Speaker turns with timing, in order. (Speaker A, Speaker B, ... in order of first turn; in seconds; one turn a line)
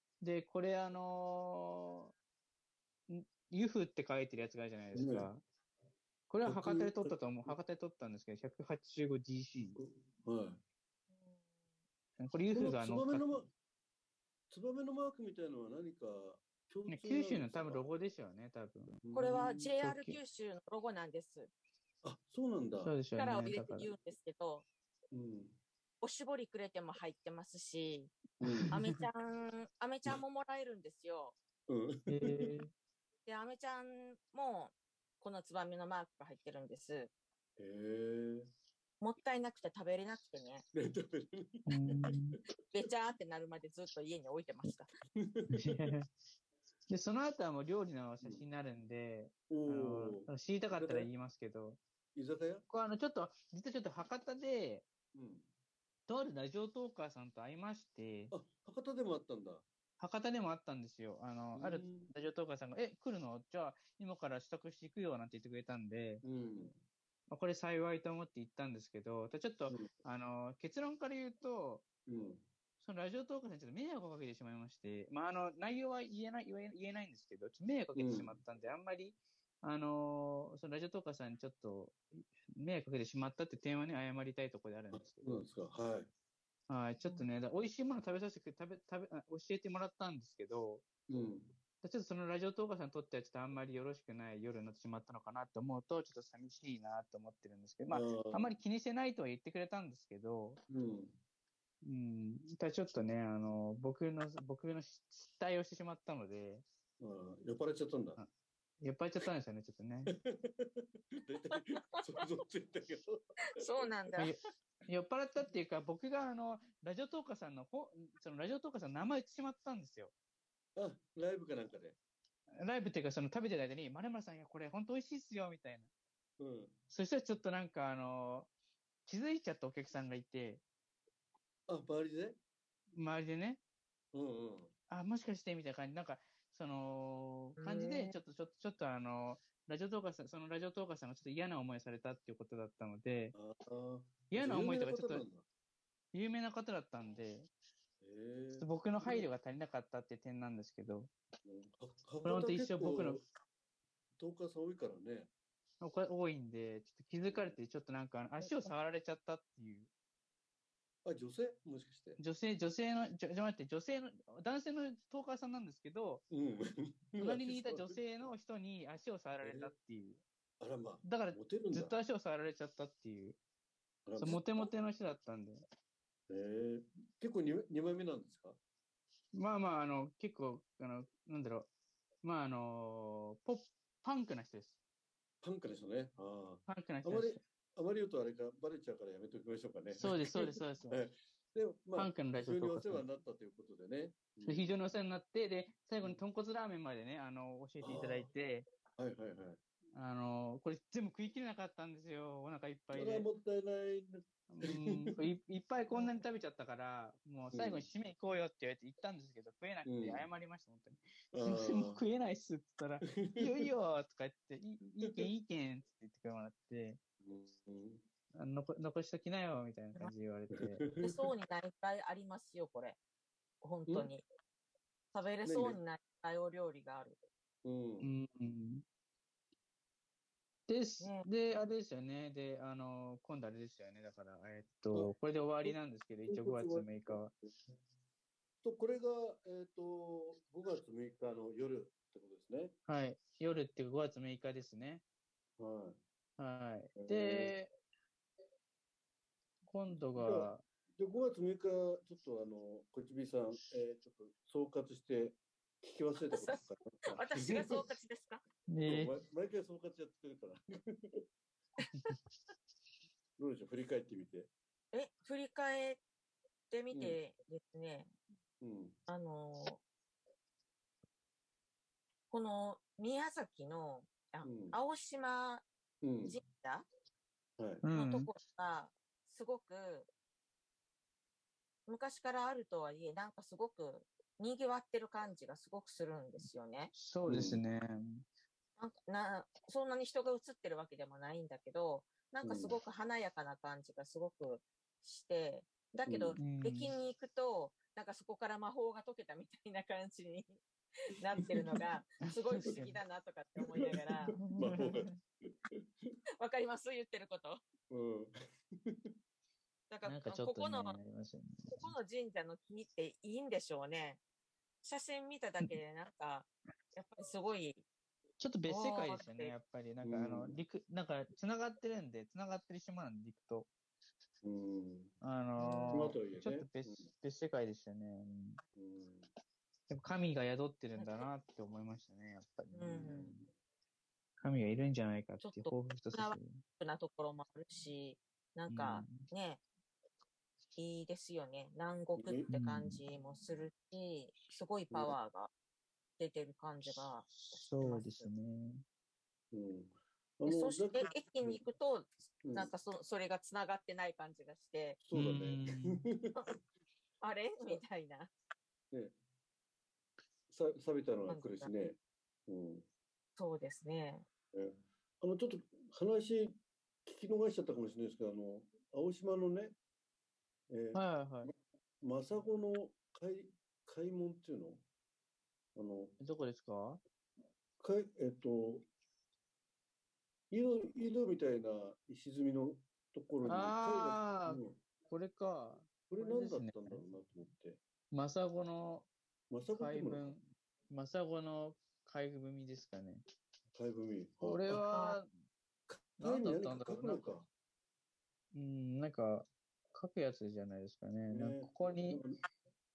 Speaker A: 0.2-2.1
Speaker A: 3.1-5.4
Speaker B: 4.9-5.3
Speaker A: 6.3-9.8
Speaker B: 6.4-7.6
Speaker B: 9.8-10.6
Speaker C: 11.1-11.4
Speaker A: 12.2-13.4
Speaker B: 12.5-13.5
Speaker B: 14.5-17.9
Speaker A: 16.9-19.0
Speaker B: 19.0-19.7
Speaker C: 19.1-21.5
Speaker A: 19.8-20.2
Speaker B: 22.0-22.9
Speaker A: 22.8-23.9
Speaker C: 23.1-24.6
Speaker B: 25.1-25.6
Speaker C: 26.0-28.1
Speaker B: 28.4-28.8
Speaker A: 28.4-28.9
Speaker C: 28.7-31.4
Speaker B: 31.7-32.4
Speaker A: 32.1-32.7
Speaker C: 33.2-37.1
Speaker B: 37.6-38.5
Speaker C: 39.0-40.6
Speaker B: 40.7-42.1
Speaker A: 41.7-42.4
Speaker C: 42.7-44.9
Speaker B: 45.2-45.9
Speaker A: 45.5-46.1
Speaker A: 46.9-51.8
Speaker B: 48.2-48.5
Speaker B: 49.5-51.1
Speaker B: 52.1-52.6
Speaker A: 52.7-54.9
Speaker B: 55.1-55.5
Speaker A: 56.1-58.3
Speaker B: 58.3-59.6
Speaker A: 60.0-66.2
Speaker B: 61.6-62.1
Speaker B: 66.2-66.8
Speaker A: 67.3-71.8
Speaker B: 72.1-72.5
Speaker A: 72.8-85.4
Speaker B: 77.9-78.4
Speaker B: 84.9-86.1
Speaker A: 86.7-90.8
Speaker B: 91.1-91.5
Speaker A: 91.8-100.6
Speaker B: 97.9-98.5
Speaker B: 100.7-101.2
Speaker A: 101.8-106.6
Speaker B: 107.0-108.2
Speaker A: 108.8-110.1
Speaker B: 110.1-113.9
Speaker C: 113.6-114.3
Speaker A: 114.2-120.1
Speaker B: 120.8-122.0
Speaker A: 122.6-125.9
Speaker B: 126.4-126.8
Speaker A: 126.9-128.5
Speaker A: 129.1-130.6
Speaker B: 131.7-132.4
Speaker A: 132.9-133.6
Speaker B: 134.1-134.7
Speaker A: 134.9-143.3
Speaker C: 137.6-138.2
Speaker B: 143.3-145.4
Speaker A: 144.3-145.2
Speaker A: 146.1-147.5
Speaker B: 148.0-149.3
Speaker A: 148.6-151.1
Speaker B: 151.4-153.2
Speaker A: 152.2-153.2
Speaker B: 154.2-155.3
Speaker A: 155.8-159.9
Speaker B: 157.2-157.6
Speaker C: 158.4-158.7
Speaker B: 161.0-162.2
Speaker A: 162.2-166.2
Speaker B: 166.3-168.0
Speaker A: 167.2-170.2
Speaker B: 169.4-169.7
Speaker B: 170.6-172.0
Speaker A: 171.0-173.4
Speaker B: 174.1-174.7
Speaker A: 174.2-175.6
Speaker B: 176.3-178.6
Speaker A: 179.3-181.7
Speaker A: 182.2-184.8
Speaker B: 185.4-194.8
Speaker A: 186.7-187.4
Speaker A: 190.0-191.0
Speaker A: 192.0-193.0
Speaker A: 194.4-198.7
Speaker B: 197.8-198.3
Speaker B: 199.0-199.6
Speaker A: 199.9-203.3
Speaker B: 202.9-205.2
Speaker A: 204.5-217.0
Speaker B: 207.5-207.9
Speaker B: 209.8-210.3
Speaker B: 211.3-212.0
Speaker B: 213.2-213.7
Speaker B: 217.2-218.0
Speaker A: 218.3-220.8
Speaker B: 220.6-221.2
Speaker C: 221.0-223.0
Speaker C: 223.6-224.2
Speaker C: 225.1-227.2
Speaker B: 225.4-225.8
Speaker B: 227.6-228.1
Speaker A: 228.0-228.8
Speaker A: 230.7-237.3
Speaker C: 231.0-231.3
Speaker B: 234.9-235.8
Speaker B: 236.3-237.3
Speaker B: 238.6-242.8
Speaker A: 242.9-245.0
Speaker B: 245.6-246.0
Speaker A: 246.4-247.7
Speaker B: 247.0-247.6
Speaker A: 249.6-250.6
Speaker B: 250.2-257.9
Speaker C: 257.1-258.4
Speaker A: 258.7-259.1
Speaker B: 258.9-260.6
Speaker B: 263.4-264.5
Speaker C: 264.9-266.0
Speaker C: 266.7-268.1
Speaker B: 266.9-267.2
Speaker B: 268.6-269.0
Speaker C: 269.1-269.8
Speaker C: 272.3-275.7
Speaker B: 274.4-274.8
Speaker B: 276.0-276.3
Speaker C: 276.2-276.9
Speaker A: 277.8-278.3
Speaker C: 277.9-280.1
Speaker C: 281.9-286.9
Speaker A: 286.9-287.9
Speaker B: 287.3-287.6
Speaker C: 288.8-304.4
Speaker B: 292.4-292.8
Speaker B: 296.1-296.4
Speaker A: 296.4-296.9
Speaker A: 302.3-302.9
Speaker B: 303.7-305.1
Speaker A: 304.3-305.2
Speaker C: 306.4-307.6
Speaker B: 307.9-308.3
Speaker C: 309.9-311.0
Speaker A: 310.1-311.9
Speaker C: 311.7-314.2
Speaker C: 314.8-317.8
Speaker A: 318.4-323.7
Speaker C: 318.7-319.5
Speaker B: 320.0-320.6
Speaker B: 324.4-325.1
Speaker A: 325.2-328.6
Speaker C: 325.6-326.1
Speaker B: 325.9-327.1
Speaker B: 328.8-329.3
Speaker A: 329.9-333.4
Speaker C: 331.0-331.3
Speaker C: 332.7-333.4
Speaker A: 334.4-336.6
Speaker C: 335.4-339.6
Speaker A: 338.7-339.2
Speaker C: 340.8-345.5
Speaker B: 342.2-342.5
Speaker A: 342.5-343.0
Speaker B: 344.9-345.2
Speaker C: 346.2-348.3
Speaker A: 346.9-348.8
Speaker B: 349.5-351.6
Speaker C: 350.5-355.0
Speaker B: 352.4-352.7
Speaker B: 355.0-356.4
Speaker A: 355.1-356.0
Speaker C: 357.2-358.3
Speaker B: 360.5-362.9
Speaker C: 361.3-361.7
Speaker C: 363.4-364.2
Speaker B: 364.5-369.8
Speaker B: 370.7-371.0
Speaker A: 370.9-371.5
Speaker B: 372.0-374.8
Speaker B: 375.7-376.2
Speaker A: 376.2-377.0
Speaker B: 377.8-378.9
Speaker B: 380.5-384.8
Speaker A: 383.4-387.0
Speaker B: 386.1-387.8
Speaker A: 388.1-389.1
Speaker B: 389.5-390.3
Speaker A: 389.8-393.2
Speaker B: 393.7-394.8
Speaker A: 394.4-395.3
Speaker C: 394.9-395.2
Speaker B: 395.9-397.5
Speaker A: 396.2-397.4
Speaker A: 398.5-402.2
Speaker B: 401.3-402.4